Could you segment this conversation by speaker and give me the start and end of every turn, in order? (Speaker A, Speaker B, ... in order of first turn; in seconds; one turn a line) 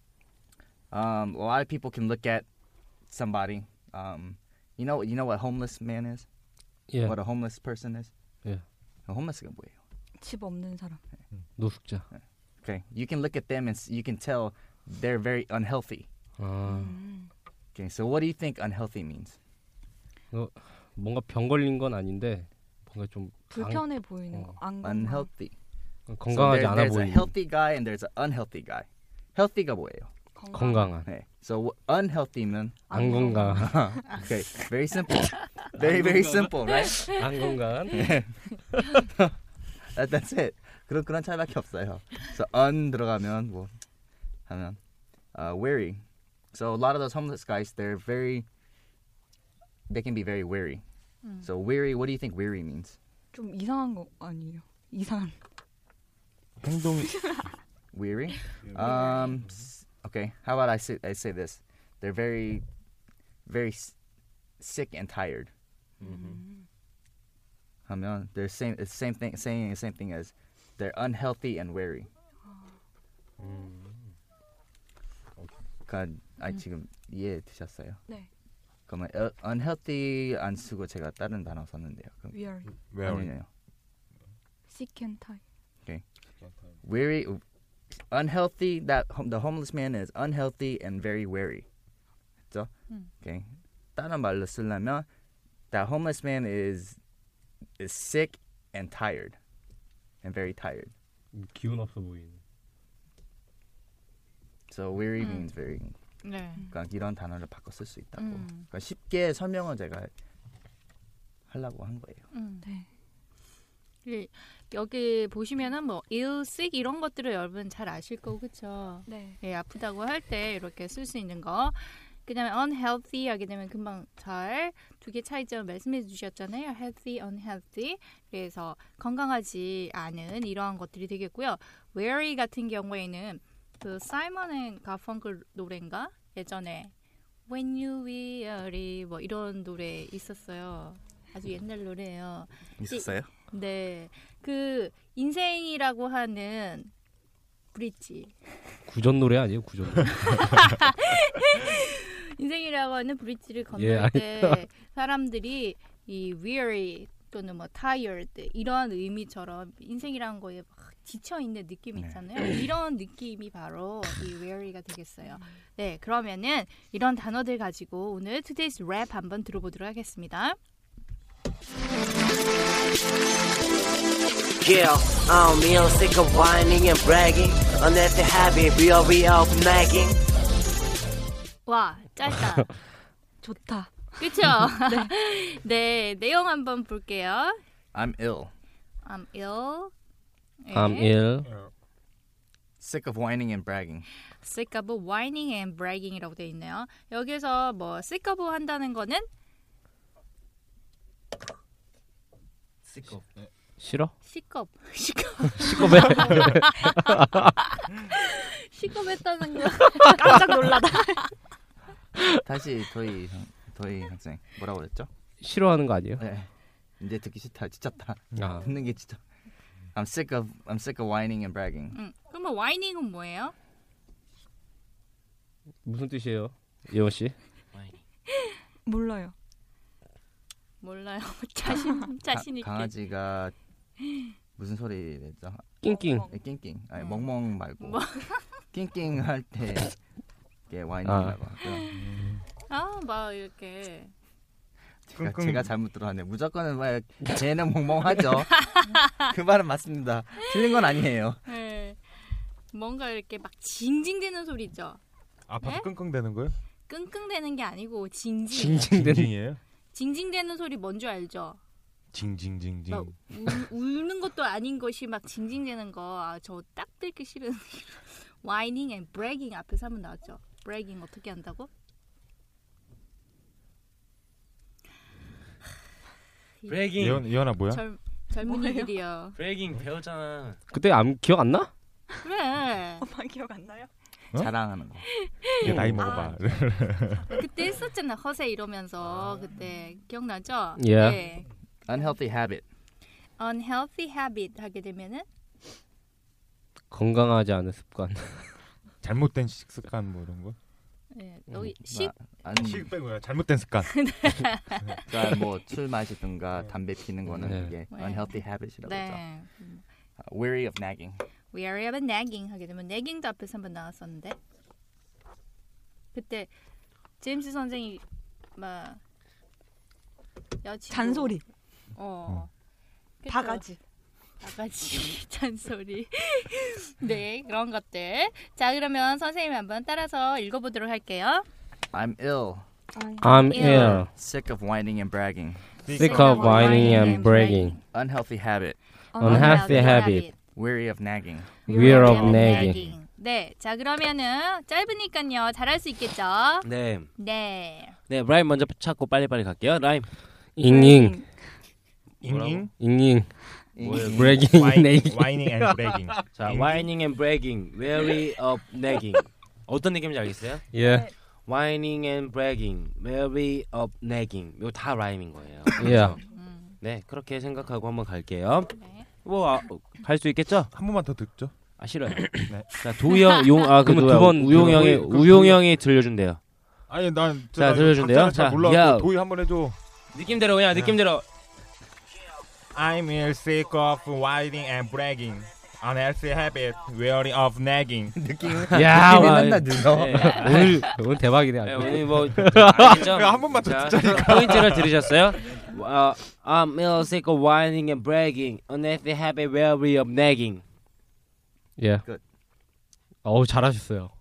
Speaker A: 0.9-2.5
Speaker A: 3.1-6.2
Speaker B: 6.9-7.2
Speaker A: 7.0-8.1
Speaker A: 9.1-9.8
Speaker C: 10.2-11.0
Speaker B: 11.6-12.0
Speaker A: 12.6-16.1
Speaker B: 16.4-17.0
Speaker C: 16.7-17.3
Speaker A: 17.7-19.4
Speaker B: 20.3-24.5
Speaker C: 23.5-25.3
Speaker A: 24.8-25.5
Speaker B: 26.1-27.3
Speaker A: 26.3-30.1
Speaker C: 30.4-30.9
Speaker B: 30.5-31.1
Speaker A: 31.0-32.8
Speaker C: 32.9-33.8
Speaker B: 32.9-33.7
Speaker A: 33.5-37.2
Speaker C: 36.0-36.4
Speaker B: 37.1-38.1
Speaker A: 37.9-38.4
Speaker A: 38.9-39.2
Speaker A: 39.9-43.7
Speaker A: 44.5-44.8
Speaker A: 45.3-46.0
Speaker A: 46.5-48.5
Speaker A: 49.9-50.8
Speaker D: 51.2-51.5
Speaker A: 51.4-53.0
Speaker C: 53.3-55.4
Speaker E: 56.6-57.2
Speaker C: 57.0-57.5
Speaker A: 57.9-62.6
Speaker C: 58.8-59.3
Speaker A: 63.5-63.9
Speaker A: 64.6-65.5
Speaker F: 66.0-66.4
Speaker C: 66.0-66.6
Speaker A: 67.9-72.1
Speaker C: 72.4-72.8
Speaker F: 73.4-74.0
Speaker A: 75.8-78.0
Speaker A: 78.9-82.4
Speaker C: 82.3-82.7
Speaker E: 82.7-83.3
Speaker A: 83.0-83.5
Speaker C: 84.7-85.4
Speaker E: 86.4-86.7
Speaker A: 86.8-87.4
Speaker A: 88.1-91.7
Speaker A: 93.2-95.1
Speaker A: 95.7-97.0
Speaker A: 97.8-99.3
Speaker A: 100.2-100.9
Speaker B: 101.3-102.4
Speaker A: 104.7-105.9
Speaker D: 105.2-105.5
Speaker D: 106.2-106.7
Speaker A: 106.7-110.1
Speaker D: 108.2-108.7
Speaker A: 111.5-112.2
Speaker D: 112.3-112.6
Speaker C: 112.6-112.9
Speaker D: 114.0-136.9
Speaker C: 119.1-119.4
Speaker D: 137.5-146.9
Speaker A: 142.8-143.3
Speaker D: 147.7-148.3
Speaker B: 148.9-150.6
Speaker D: 150.1-170.6
Speaker B: 153.8-154.6
Speaker A: 161.9-162.2
Speaker G: 174.6-180.1
Speaker D: 181.7-182.7
Speaker C: 183.4-185.1
Speaker D: 184.2-187.5
Speaker A: 187.9-188.5
Speaker D: 189.0-189.9
Speaker D: 190.6-191.1
Speaker B: 190.7-191.5
Speaker E: 191.4-191.7
Speaker A: 192.8-194.1
Speaker D: 194.4-199.2
Speaker B: 203.8-204.1
Speaker D: 204.2-207.1
Speaker B: 205.6-207.4
Speaker D: 207.6-210.9
Speaker C: 210.0-211.2
Speaker A: 212.4-215.1
Speaker B: 215.4-216.2
Speaker A: 216.2-216.5
Speaker A: 217.0-219.2
Speaker B: 218.4-218.7
Speaker A: 219.9-222.0
Speaker D: 221.9-223.5
Speaker B: 225.8-227.3
Speaker F: 227.7-228.0
Speaker C: 228.8-229.3
Speaker D: 230.8-232.9
Speaker C: 231.8-232.1
Speaker A: 232.3-233.5
Speaker D: 234.0-234.3
Speaker A: 234.6-235.7
Speaker B: 235.8-236.3
Speaker C: 235.9-236.3
Speaker A: 236.2-238.1
Speaker D: 237.0-238.6
Speaker A: 238.7-239.9
Speaker A: 240.7-241.9
Speaker B: 241.0-241.4
Speaker D: 241.6-241.9
Speaker E: 241.9-242.4
Speaker D: 242.6-244.1
Speaker A: 245.1-248.6
Speaker E: 245.2-245.7
Speaker D: 248.5-249.1
Speaker A: 249.2-251.4
Speaker D: 251.4-252.0
Speaker D: 252.7-255.0
Speaker E: 255.5-256.6
Speaker D: 255.6-255.9
Speaker D: 256.9-258.9
Speaker B: 258.5-259.3
Speaker E: 258.9-259.6
Speaker D: 259.9-261.6
Speaker E: 262.1-263.1
Speaker D: 262.9-271.7
Speaker D: 276.6-279.4
Speaker F: 276.7-277.2
Speaker E: 276.9-277.8
Speaker C: 278.4-279.0
Speaker F: 279.4-280.6
Speaker B: 280.7-281.7
Speaker D: 282.2-283.0
Speaker C: 283.0-283.9
Speaker A: 284.4-285.1
Speaker E: 285.6-287.3
Speaker B: 285.6-286.2
Speaker C: 285.9-286.5
Speaker C: 287.2-287.4
Speaker D: 287.3-291.5
Speaker B: 290.8-291.2
Speaker A: 291.9-292.6
Speaker D: 293.4-295.2
Speaker B: 296.9-298.5
Speaker E: 299.0-300.6
Speaker D: 301.1-302.1
Speaker A: 301.8-302.9
Speaker E: 302.6-304.5
Speaker D: 303.8-305.3
Speaker A: 305.1-309.2
Speaker B: 307.3-307.7
Speaker D: 307.9-309.8
Speaker A: 310.2-311.2
Speaker D: 311.5-314.4
Speaker D: 316.1-316.5
Speaker D: 317.2-318.0
Speaker D: 318.6-319.0
Speaker D: 320.6-321.4
Speaker C: 320.9-321.4
Speaker D: 321.9-322.5
Speaker D: 323.2-323.6
Speaker C: 323.3-323.8
Speaker D: 324.4-331.4
Speaker A: 331.9-332.6
Speaker C: 332.9-333.9
Speaker B: 333.2-334.1
Speaker D: 333.5-334.0
Speaker A: 333.6-335.6
Speaker E: 335.8-337.0
Speaker D: 335.9-337.8
Speaker B: 335.9-337.8
Speaker C: 336.5-337.5
Speaker A: 337.9-338.8
Speaker C: 339.1-339.8
Speaker B: 339.2-340.3
Speaker D: 339.2-340.3
Speaker F: 339.5-340.0
Speaker A: 340.5-341.6
Speaker C: 341.7-342.7
Speaker B: 341.7-342.8
Speaker D: 341.7-347.9
Speaker F: 346.6-347.1
Speaker F: 348.1-350.1
Speaker B: 350.6-351.2
Speaker C: 350.6-351.5
Speaker E: 352.2-352.7
Speaker F: 352.2-352.6
Speaker B: 352.8-353.3
Speaker A: 353.8-354.4
Speaker F: 353.8-354.3
Speaker B: 353.8-356.0
Speaker E: 354.3-356.9
Speaker F: 356.3-360.7
Speaker B: 360.7-361.1
Speaker F: 361.4-366.2
Speaker B: 365.8-366.2
Speaker D: 365.9-366.8
Speaker F: 366.8-370.7
Speaker D: 368.7-369.1
Speaker E: 370.7-371.5
Speaker F: 371.8-376.4
Speaker E: 372.4-372.7
Speaker B: 373.8-375.6
Speaker E: 376.9-379.8
Speaker F: 377.6-379.1
Speaker F: 380.1-381.2
Speaker E: 380.7-380.9
Speaker E: 382.7-388.1
Speaker A: 388.1-390.5
Speaker F: 388.7-390.9
Speaker B: 388.7-392.9
Speaker F: 391.6-400.6
Speaker E: 392.7-394.9
Speaker B: 401.8-402.0
Speaker B: 403.2-404.1